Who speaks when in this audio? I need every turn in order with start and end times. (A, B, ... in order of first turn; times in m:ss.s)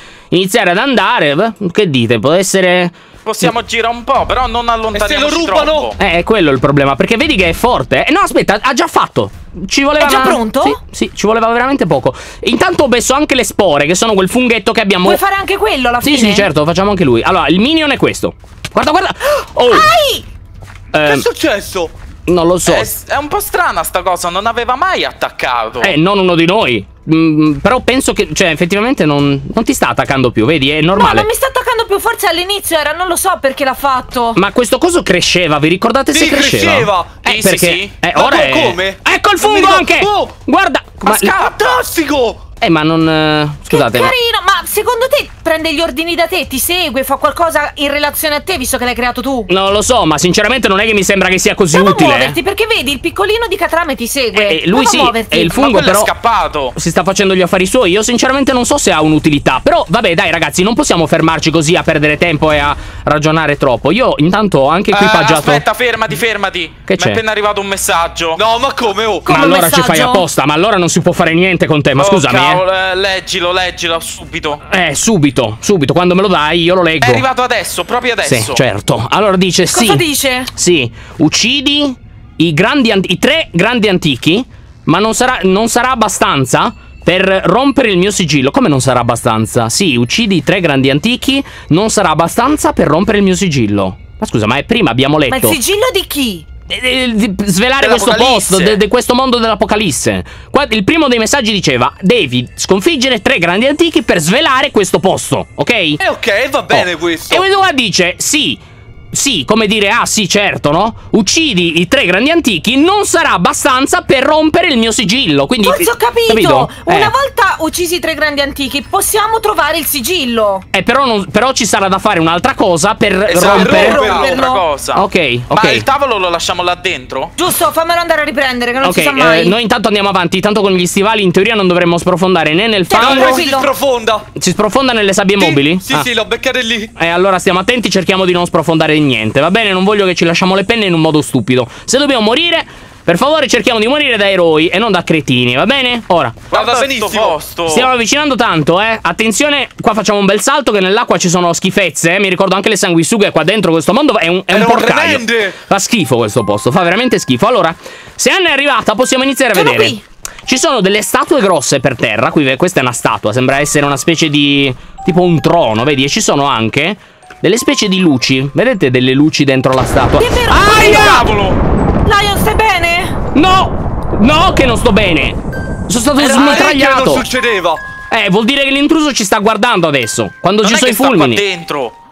0:00.3-0:03.5 A
0:03.2-0:06.0 B
0:04.9-0:05.9 C
0:06.0-0:15.2 A
0:10.0-0:10.8 D
0:15.0-0:16.5 D
0:16.0-0:19.9 A
0:19.7-0:20.2 D
0:20.9-0:21.3 A
0:21.0-0:21.9 C
0:22.3-0:22.9 A
0:22.7-0:25.9 B
0:25.8-0:31.3 A
0:31.0-0:34.4 D
0:34.4-0:41.4 A
0:36.1-0:37.2 C
0:37.2-0:37.9 B
0:38.1-0:40.3 C
0:41.1-0:41.8 B
0:41.1-0:42.4 C
0:42.6-0:44.1 A
0:43.7-0:49.5 D
0:49.5-0:52.4 A
0:51.7-0:55.5 D
0:54.3-0:56.1 A
0:55.5-0:56.8 B
0:56.8-1:05.6 A
1:04.9-1:08.4 B
1:06.9-1:07.2 A
1:08.4-1:09.4 C
1:09.3-1:10.2 D
1:09.3-1:12.6 A
1:12.0-1:14.6 B
1:14.7-1:17.3 A
1:17.0-1:18.6 B
1:18.2-1:35.6 A
1:19.7-1:20.5 D
1:35.3-1:36.5 D
1:36.7-1:46.0 A
1:37.8-1:38.8 B
1:46.0-1:47.4 C
1:46.7-1:48.6 A
1:49.1-1:57.1 A
1:55.6-2:00.6 D
2:00.7-2:04.0 A
2:03.3-2:07.3 B
2:03.4-2:04.3 C
2:03.6-2:04.6 D
2:04.9-2:05.9 A
2:07.4-2:09.6 D
2:08.8-2:13.4 A
2:12.9-2:13.7 D
2:13.0-2:14.3 C
2:14.4-2:16.1 A
2:15.4-2:16.9 C
2:17.0-2:26.4 A
2:26.5-2:27.9 B
2:26.5-2:27.4 C
2:27.7-2:51.2 A
2:34.5-2:35.6 C
2:39.5-2:40.0 D
2:50.2-2:51.3 D
2:50.7-2:51.6 B
2:52.0-2:53.2 D
2:53.3-2:57.2 A
2:56.2-2:57.8 C
2:58.1-3:01.4 A
3:00.6-3:02.0 B